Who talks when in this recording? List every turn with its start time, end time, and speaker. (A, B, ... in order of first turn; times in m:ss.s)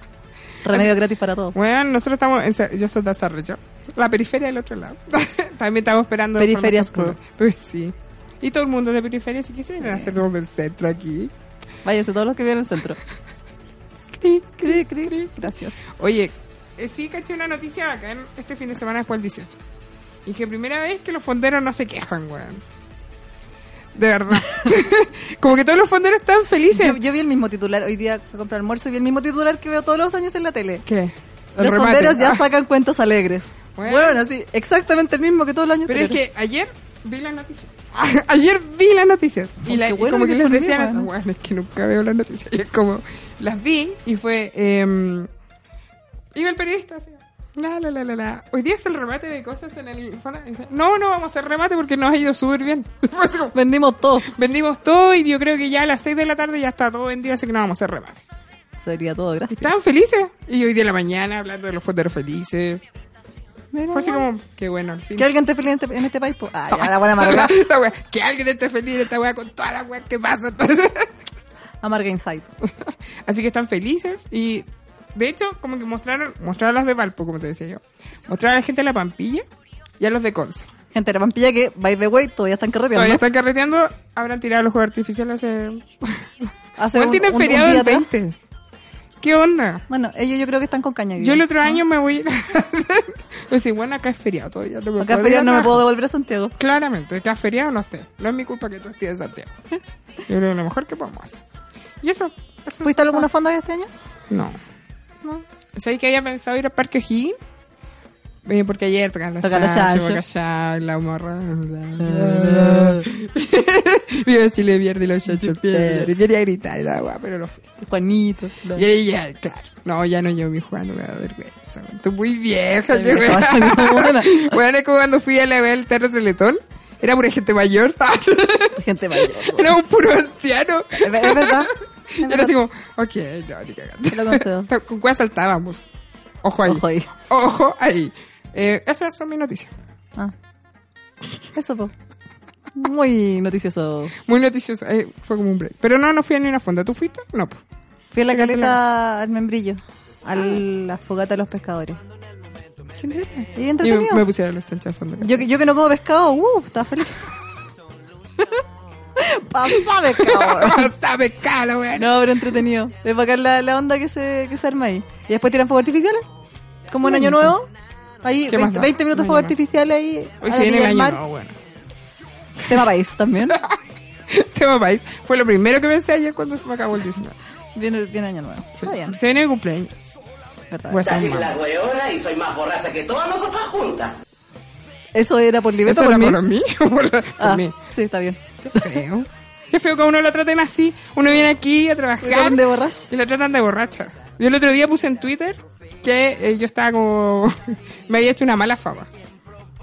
0:00.6-0:01.6 A
0:00.7-0:01.0 B
0:01.5-0:11.3 B
0:06.4-0:07.2 A
0:09.8-0:10.1 A
0:11.8-0:13.0 A
0:14.1-0:19.6 B
0:14.6-0:15.8 A
0:20.2-0:22.6 B
0:24.0-0:27.0 B
0:26.7-0:30.8 A
0:30.9-0:32.5 B
0:31.6-0:36.2 A
0:33.8-0:34.2 B
0:35.9-0:45.3 B
0:39.7-0:41.1 A
0:46.3-0:53.6 B
0:53.5-0:54.3 A
0:54.3-0:58.2 B
0:58.8-0:59.7 A
0:59.5-1:02.9 B
1:03.7-1:04.3 A
1:03.9-1:05.4 B
1:05.2-1:07.6 A
1:06.7-1:11.1 B
1:11.8-1:12.5 A
1:12.6-1:19.4 B
1:20.0-1:20.7 B
1:20.9-1:23.2 A
1:22.9-1:28.4 B
1:26.8-1:28.2 A
1:29.2-1:29.8 B
1:29.9-1:31.8 A
1:31.2-1:35.9 B
1:35.0-1:36.6 A
1:36.6-1:39.5 B
1:40.3-1:41.4 B
1:42.0-1:43.3 B
1:42.8-1:43.9 A
1:44.3-1:44.6 B
1:45.7-1:47.4 B
1:48.4-1:57.8 B
1:49.4-1:50.2 A
1:52.0-1:53.1 A
1:55.3-1:56.1 A
1:57.8-1:58.9 A
1:58.7-2:15.9 B
2:02.9-2:04.6 A
2:08.8-2:09.8 A
2:11.0-2:12.5 A
2:14.1-2:14.7 A
2:16.4-2:19.7 B
2:16.6-2:17.1 A
2:21.5-2:21.9 A
2:22.8-2:24.2 A
2:24.2-2:27.6 B
2:28.1-2:32.0 A
2:28.3-2:28.8 B
2:33.0-2:35.5 B
2:33.6-2:34.2 A
2:35.2-2:37.2 A
2:39.2-2:40.9 A
2:39.7-2:42.2 B
2:42.0-2:46.2 A
2:46.9-2:47.7 A
2:47.0-2:47.6 B
2:48.2-2:51.2 A
2:48.5-2:49.6 B
2:50.4-2:51.6 B
2:52.6-2:53.6 A
2:54.3-2:57.4 B
2:57.8-2:59.2 A
2:58.8-3:00.0 B
3:00.7-3:01.4 A
3:00.9-3:01.5 B
3:01.0-3:04.2 C
3:05.1-3:06.4 A
3:05.8-3:07.8 B
3:07.4-3:08.9 A
3:08.6-3:19.1 B
3:12.2-3:13.1 A